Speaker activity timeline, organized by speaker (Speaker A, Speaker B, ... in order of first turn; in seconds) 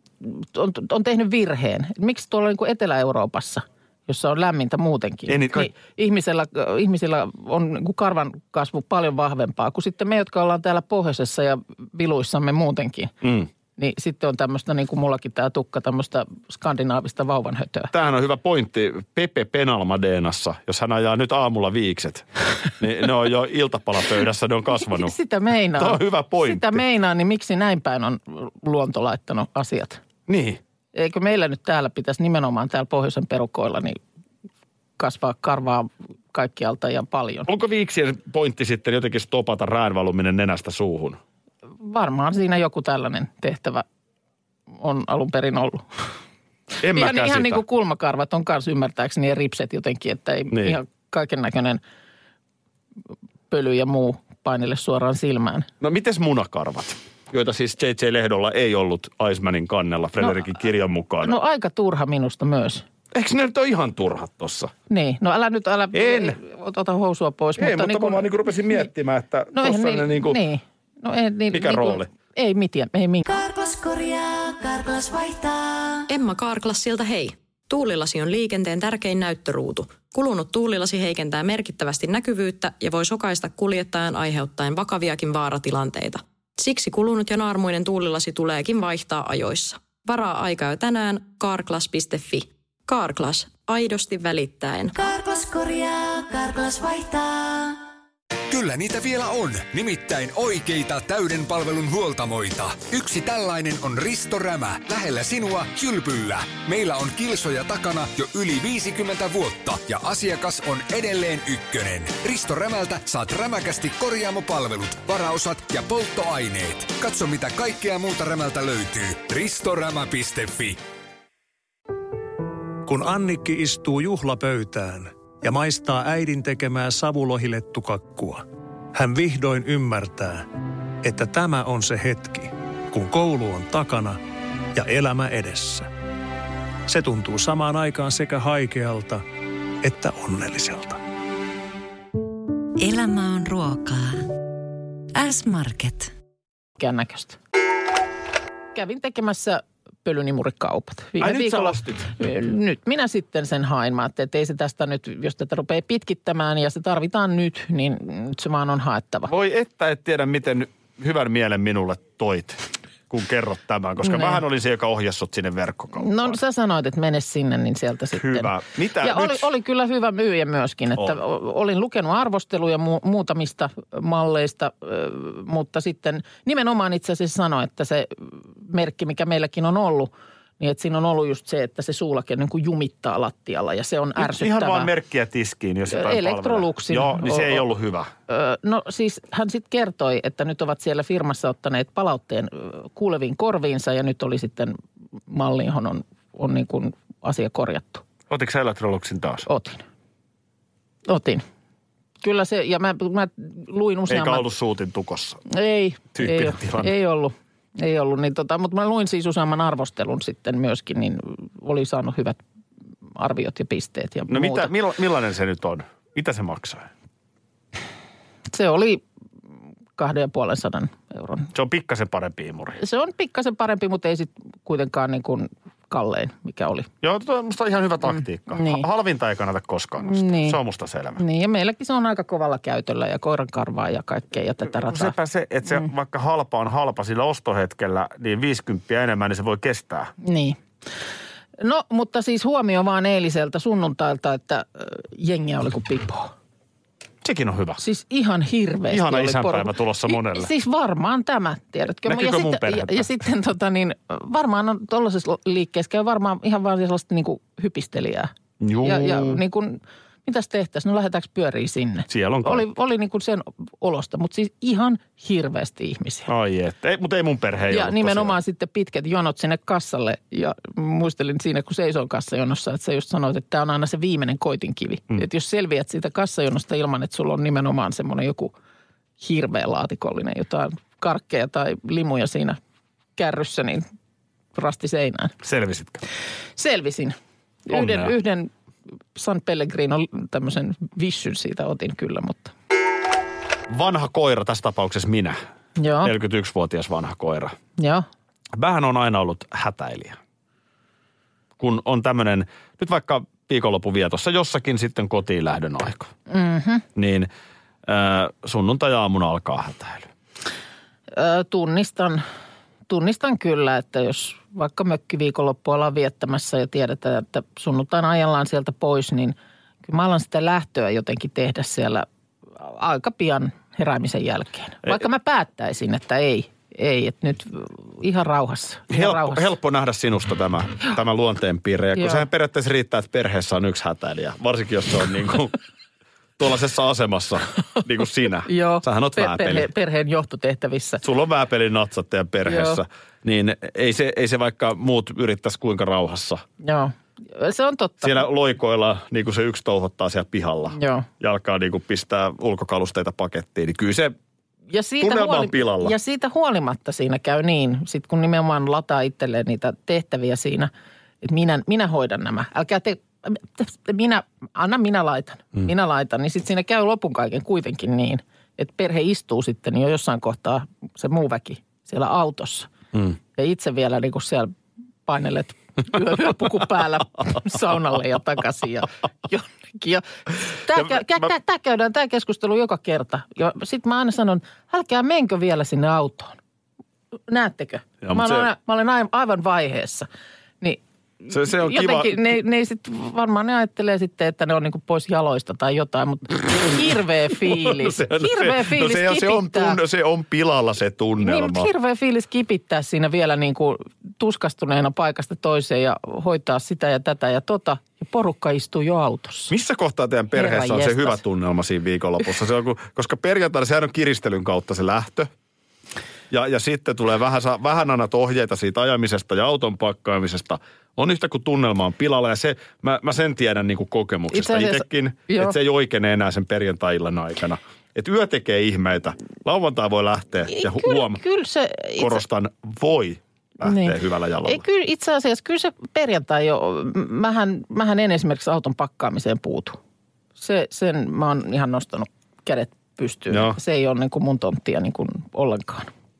Speaker A: 0.2-13.1, 13.8-17.9, 24.8-30.0, 30.9-34.0, 35.0-37.5, 41.8-43.8, 44.8-45.9, 46.9-51.8, 53.5-55.7, 61.2-62.8, 64.9-68.8, 69.5-73.3, 146.8-147.4, 148.7-159.3, 164.0-164.4, 165.9-168.5, 169.0-184.9, 185.9-187.6, 188.3-194.8, 195.3-198.0, 199.4-199.8, 201.1-201.4, 202.2-204.4, 205.5-212.4, 213.2-214.7, 218.5-219.0, 220.0-221.5, 222.8-226.9, 228.5-228.8, 230.0-230.6, 231.2-235.1, 240.2-240.6, 241.6-246.3, 247.8-266.3, 267.7-278.5, 279.2-282.6, 283.2-283.8, 284.5-285.3, 286.6-288.5, 289.1-292.5, 295.8-296.1, 297.8-298.0, 306.3-306.8, 311.1-312.2, 312.9-322.1, 322.6-329.5, 331.9-332.2, 338.5-341.0, 342.4-342.8, 346.6-348.3, 350.7-351.1, 354.7-360.7, 361.2-372.7, 373.3-374.5, 375.1-386.4, 387.3-390.1, 390.6-399.8, 401.2-409.5, 410.3-411.2, 424.3-425.5, 430.5-432.2, 433.6-439.8, 440.4-445.9
Speaker B: 5.3-5.7, 13.2-13.5, 17.9-25.1, 25.8-26.8, 30.3-30.6, 37.5-41.2, 46.8-47.6, 50.5-50.8, 55.8-61.4, 63.1-64.7, 65.9-66.4, 67.6-70.4, 71.5-72.1, 151.2-152.1, 159.3-166.4, 168.1-169.5, 184.2-188.1, 198.3-199.4, 204.1-205.4, 206.1-206.9, 214.3-216.9, 221.5-222.8, 227.0-231.2, 234.7-240.1, 247.2-247.8, 248.9-250.5, 252.1-253.1, 258.6-259.4, 262.1-262.6, 266.3-268.4, 285.4-286.0, 287.7-288.1, 293.7-295.4, 296.0-297.6, 298.5-300.2, 301.6-306.1, 306.9-307.3, 307.8-310.1, 328.9-335.5, 336.4-339.7, 341.0-346.4, 348.0-354.1, 355.0-355.9, 388.0-388.5, 391.3-392.2, 397.4-401.7, 409.5-415.3, 416.3-431.2, 432.0-434.6, 443.3-443.6
Speaker C: 73.2-97.8
Speaker D: 98.5-120.8
Speaker E: 122.8-130.4, 131.0-134.2, 134.7-135.9, 136.9-139.2, 139.8-141.0
Speaker F: 142.8-144.3, 145.1-146.1